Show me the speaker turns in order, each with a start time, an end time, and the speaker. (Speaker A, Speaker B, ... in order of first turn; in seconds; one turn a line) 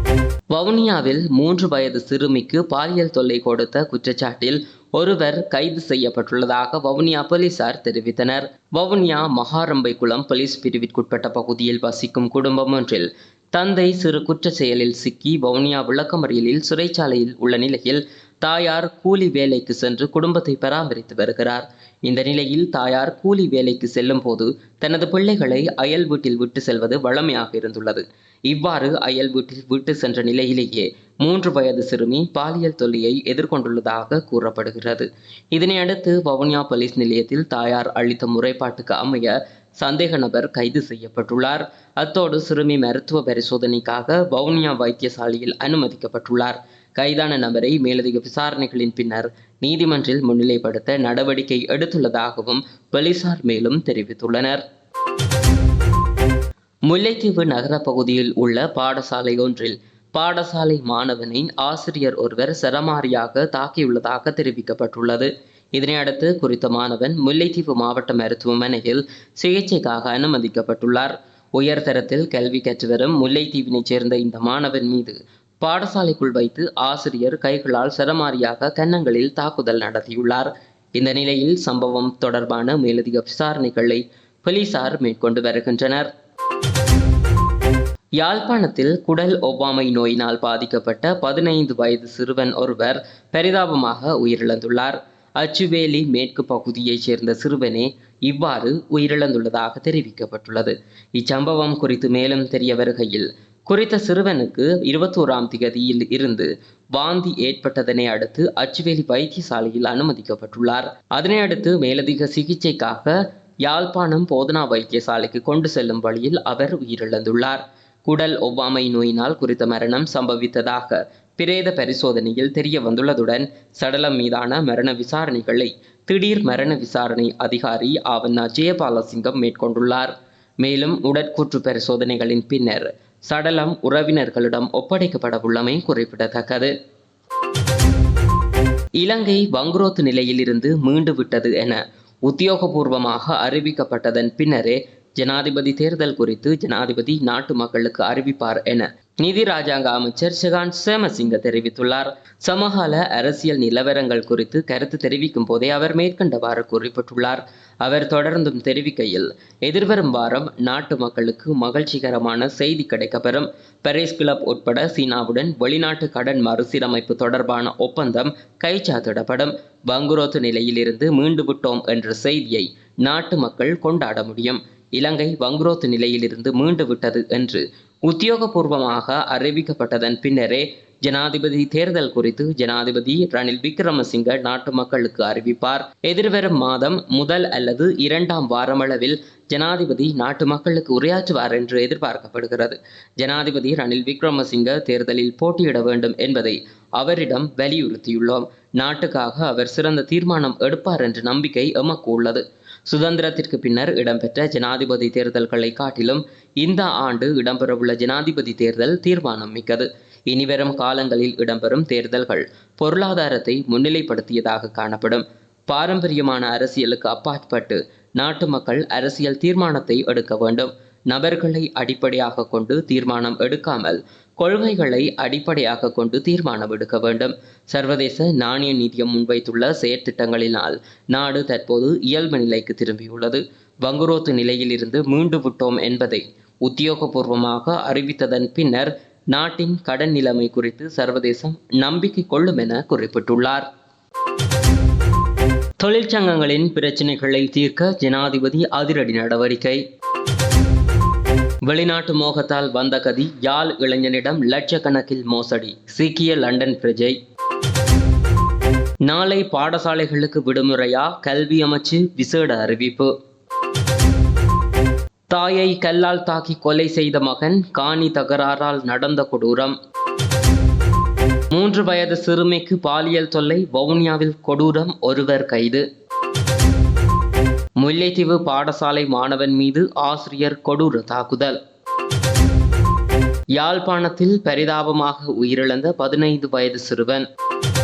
Speaker A: 0.5-54.6
Speaker A: 56.9-86.1
Speaker A: 88.2-136.7
Speaker A: 139.0-243.7
Speaker A: 245.8-249.8
Speaker A: 251.7-257.2
Speaker A: 259.1-263.1
Speaker A: 265.3-269.7
Speaker A: 271.5-275.8
Speaker A: 277.8-281.6
Speaker A: 283.6-287.2